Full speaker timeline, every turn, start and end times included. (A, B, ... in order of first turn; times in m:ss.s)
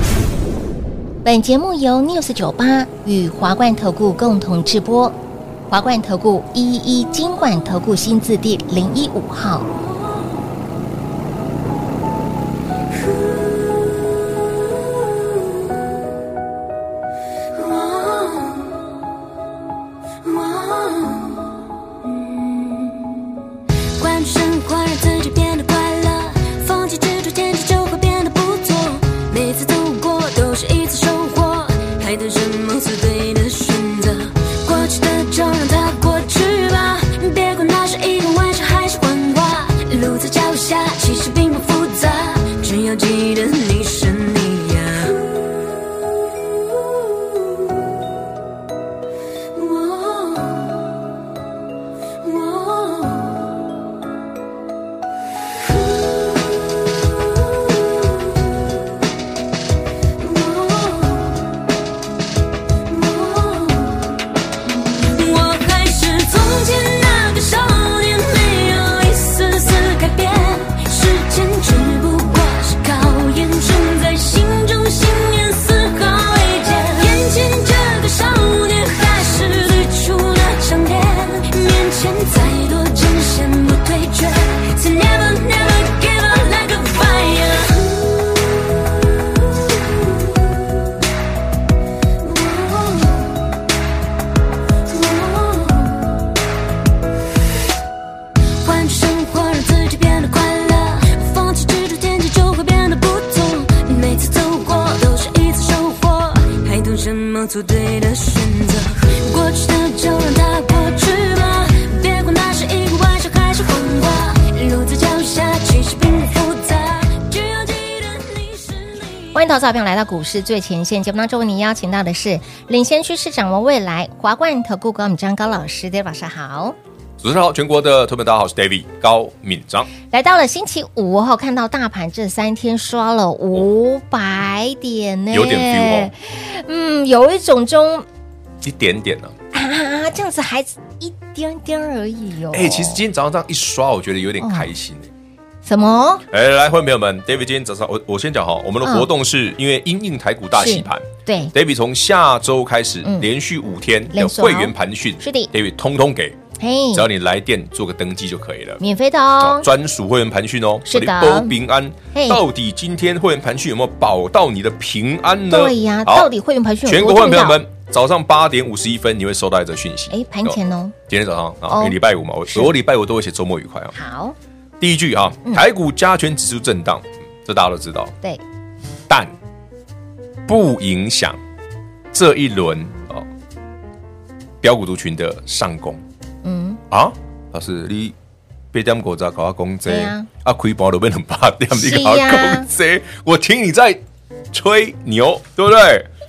0:01.2-0:05.2 A
0:05.7-0:09.7 A
0:17.5-0:18.7 B
0:20.2-0:21.6 B
0:22.2-0:23.1 B
0:23.8-0:45.2 B
0:49.6-0:50.8 B
0:52.2-0:53.4 B
0:56.1-0:56.6 B
0:57.9-0:58.2 B
1:00.2-1:01.4 B
1:02.9-1:04.1 B
1:05.0-1:28.6 B
1:32.2-1:33.3 B
1:34.9-1:36.0 B
1:38.6-1:59.3 B
1:59.3-2:06.8 A
2:07.2-2:09.9 C
2:09.9-2:18.1 A
2:15.3-2:16.1 C
2:18.6-2:19.4 C
2:19.5-2:23.0 A
2:22.5-2:25.1 C
2:24.4-2:24.7 A
2:25.6-2:26.2 A
2:26.3-2:36.4 C
2:28.8-2:29.1 A
2:30.6-2:31.5 A
2:33.0-2:33.3 A
2:34.1-2:35.5 A
2:36.6-2:37.1 A
2:36.9-2:38.8 C
2:38.8-2:39.7 A
2:39.4-2:46.3 C
2:40.8-2:41.5 A
2:42.1-2:42.4 A
2:45.5-2:47.6 A
2:46.8-2:54.0 C
2:50.1-2:51.0 A
2:51.7-2:52.0 A
2:52.5-2:52.7 A
2:53.9-2:54.3 A
2:54.8-2:58.2 C
2:59.1-2:59.3 C
3:00.5-3:01.4 C
3:02.1-3:03.3 C
3:04.6-3:06.0 C
3:06.4-3:06.8 A
3:06.9-3:08.2 C
3:08.7-3:16.1 C
3:09.9-3:10.3 A
3:11.7-3:12.7 A